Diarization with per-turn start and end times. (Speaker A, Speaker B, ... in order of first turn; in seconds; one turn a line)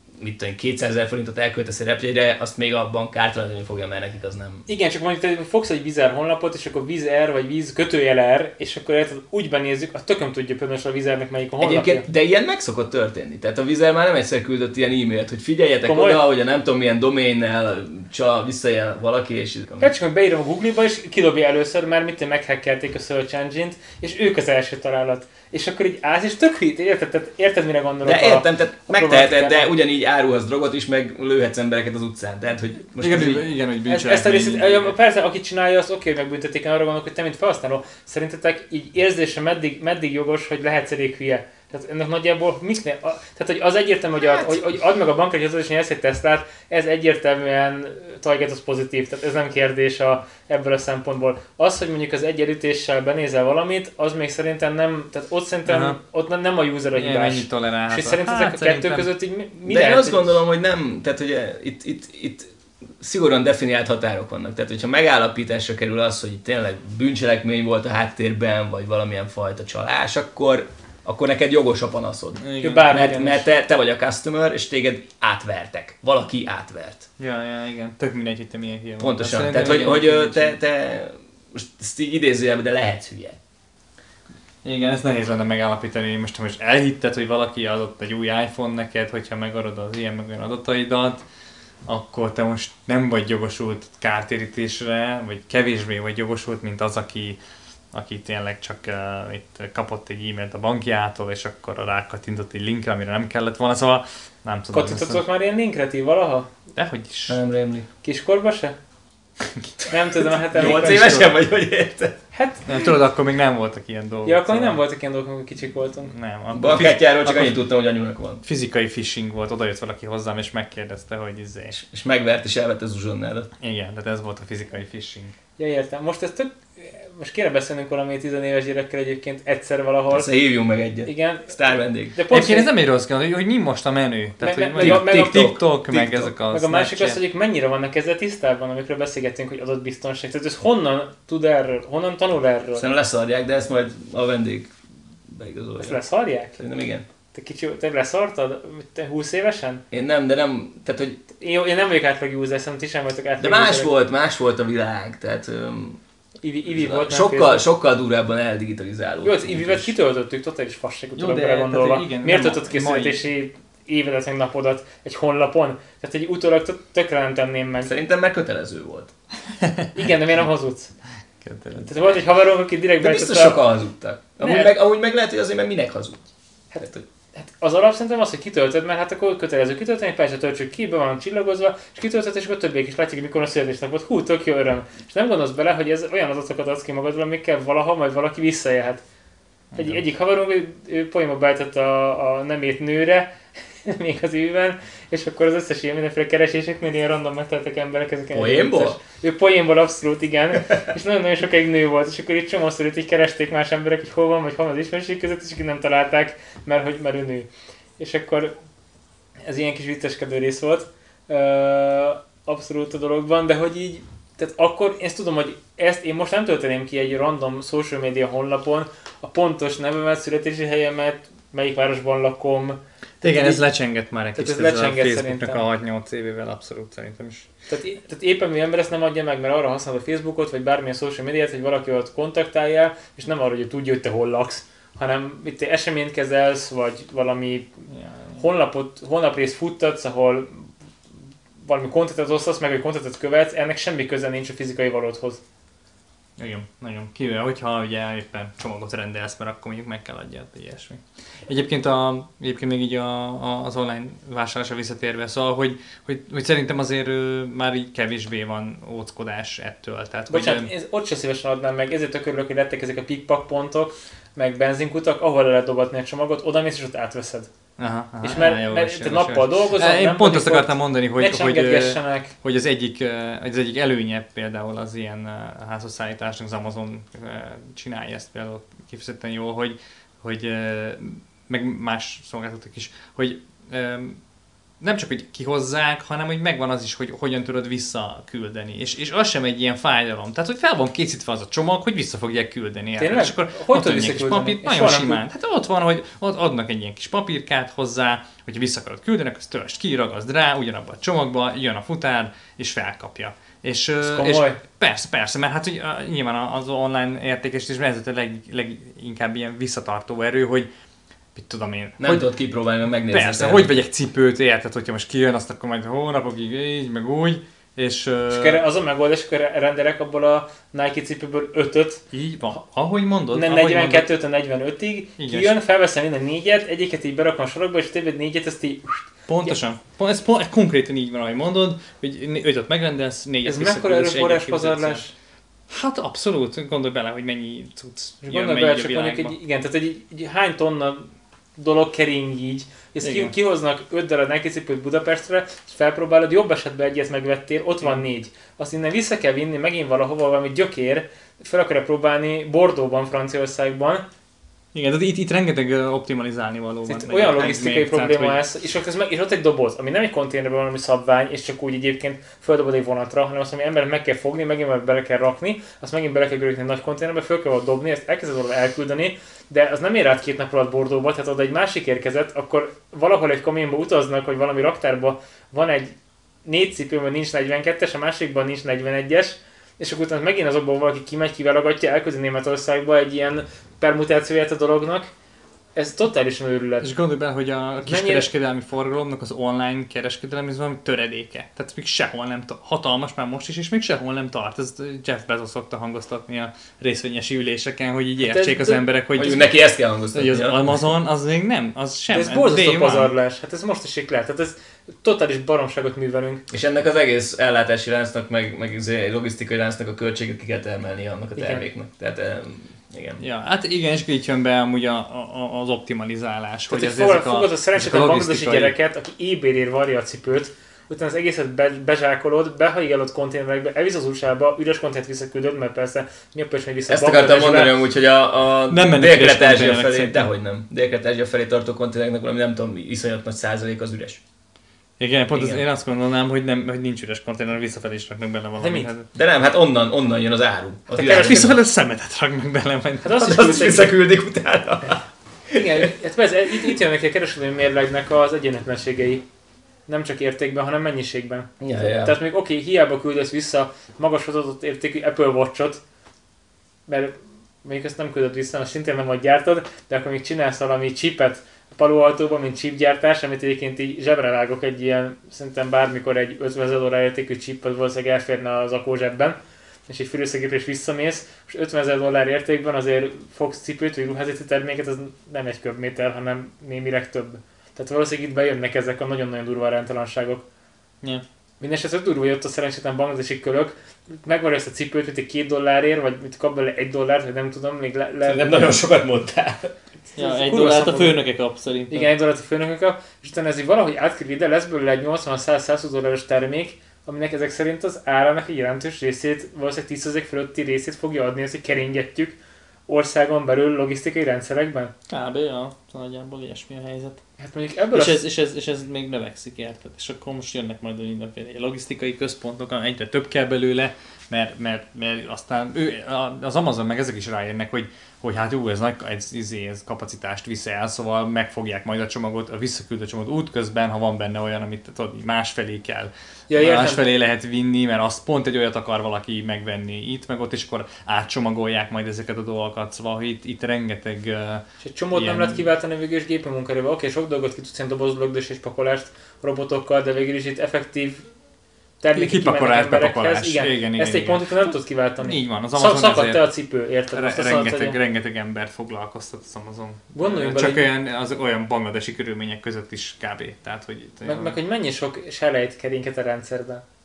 Speaker A: 0.2-4.6
Speaker B: 4.7-12.1
Speaker A: 11.6-19.9
Speaker B: 15.8-16.2
Speaker B: 19.8-29.7
Speaker A: 28.0-33.5
Speaker C: 33.0-34.9
Speaker B: 33.9-60.4
Speaker A: 44.3-44.6
Speaker C: 55.6-56.0
Speaker C: 56.9-59.1
Speaker A: 59.6-77.1
Speaker C: 72.4-73.0
Speaker B: 72.6-73.5
Speaker C: 77.2-80.5
Speaker A: 79.0-83.4
Speaker C: 84.6-91.2
Speaker C: 91.8-97.4
Speaker C: 97.9-105.2
Speaker B: 104.7-106.5
Speaker C: 106.7-107.4
Speaker A: 107.3-107.9
Speaker B: 108.0-108.8
Speaker C: 109.5-109.9
Speaker B: 109.9-111.1
Speaker A: 110.5-112.2
Speaker C: 110.5-111.3
Speaker B: 112.3-112.9
Speaker C: 112.7-114.8
Speaker B: 114.2-116.1
Speaker C: 116.0-117.5
Speaker A: 116.5-118.4
Speaker C: 118.4-121.8
Speaker A: 121.7-123.5
Speaker C: 123.6-125.3
Speaker B: 125.6-130.3
Speaker A: 130.1-132.2
Speaker B: 131.0-131.6
Speaker B: 132.1-132.7
Speaker C: 132.3-137.2
Speaker B: 134.4-135.4
Speaker A: 134.8-136.3
Speaker B: 136.5-142.9
Speaker A: 142.7-144.7
Speaker A: 145.3-146.0
Speaker B: 145.8-146.6
Speaker A: 146.6-147.1
Speaker B: 147.3-149.8
Speaker A: 149.9-151.2
Speaker B: 151.4-153.9
Speaker A: 153.4-156.0
Speaker B: 156.4-157.7
Speaker A: 156.7-159.9
Speaker B: 159.2-167.9
Speaker C: 161.2-163.2
Speaker A: 167.8-169.1
Speaker C: 169.6-169.9
Speaker B: 169.9-170.9
Speaker C: 171.4-171.9
Speaker B: 171.8-173.6
Speaker A: 173.0-176.2
Speaker B: 174.4-174.7
Speaker B: 176.7-189.0
Speaker A: 176.8-177.0
Speaker C: 189.7-190.0
Speaker B: 189.8-207.5
Speaker A: 198.3-199.0
Speaker B: 208.0-208.5
Speaker B: 209.4-223.6
Speaker C: 223.2-227.5
Speaker B: 224.3-225.6
Speaker B: 227.7-237.9
Speaker C: 237.9-238.4
Speaker B: 238.4-240.7
Speaker B: 241.6-245.4
Speaker C: 246.4-260.7
Speaker B: 260.3-267.5
Speaker C: 267.8-284.2
Speaker B: 268.2-272.3
Speaker C: 284.8-310.7
Speaker B: 293.0-295.2
Speaker B: 304.0-304.6
Speaker C: 311.3-312.2
Speaker A: 312.0-313.8
Speaker C: 313.1-318.6
Speaker B: 318.3-322.0
Speaker C: 322.1-324.1
Speaker B: 323.3-329.5
Speaker C: 325.2-325.6
Speaker C: 329.3-335.0
Speaker B: 333.4-335.1
Speaker C: 335.7-339.4
Speaker B: 338.2-354.0
Speaker C: 343.0-343.3
Speaker C: 354.7-358.4
Speaker B: 356.9-385.1
Speaker B: 385.7-386.9
Speaker C: 386.8-399.6
Speaker B: 387.8-388.3
Speaker B: 398.2-398.8
Speaker A: 399.1-400.7
Speaker C: 400.1-403.1
Speaker B: 402.1-406.4
Speaker A: 406.5-413.2
Speaker B: 411.3-411.6
Speaker C: 413.2-418.7
Speaker B: 416.7-427.8
Speaker A: 426.9-434.2
Speaker C: 428.7-430.3
Speaker C: 435.0-439.1
Speaker B: 435.3-435.6
Speaker B: 438.6-438.9
Speaker A: 439.1-441.6
Speaker C: 441.0-443.7
Speaker B: 443.0-443.9
Speaker A: 443.2-445.9
Speaker B: 445.5-449.2
Speaker B: 449.9-455.8
Speaker A: 451.6-452.1
Speaker B: 456.9-480.4
Speaker B: 481.6-488.7
Speaker A: 488.2-489.8
Speaker B: 490.1-491.2
Speaker C: 490.2-492.1
Speaker B: 491.9-502.4
Speaker B: 502.9-504.9
Speaker C: 505.1-507.2
Speaker B: 507.4-508.2
Speaker C: 507.9-535.6
Speaker B: 526.5-527.0
Speaker B: 534.8-541.3
Speaker B: 542.0-548.0
Speaker C: 542.1-546.5
Speaker C: 547.1-554.5
Speaker B: 550.1-550.9
Speaker B: 554.2-556.8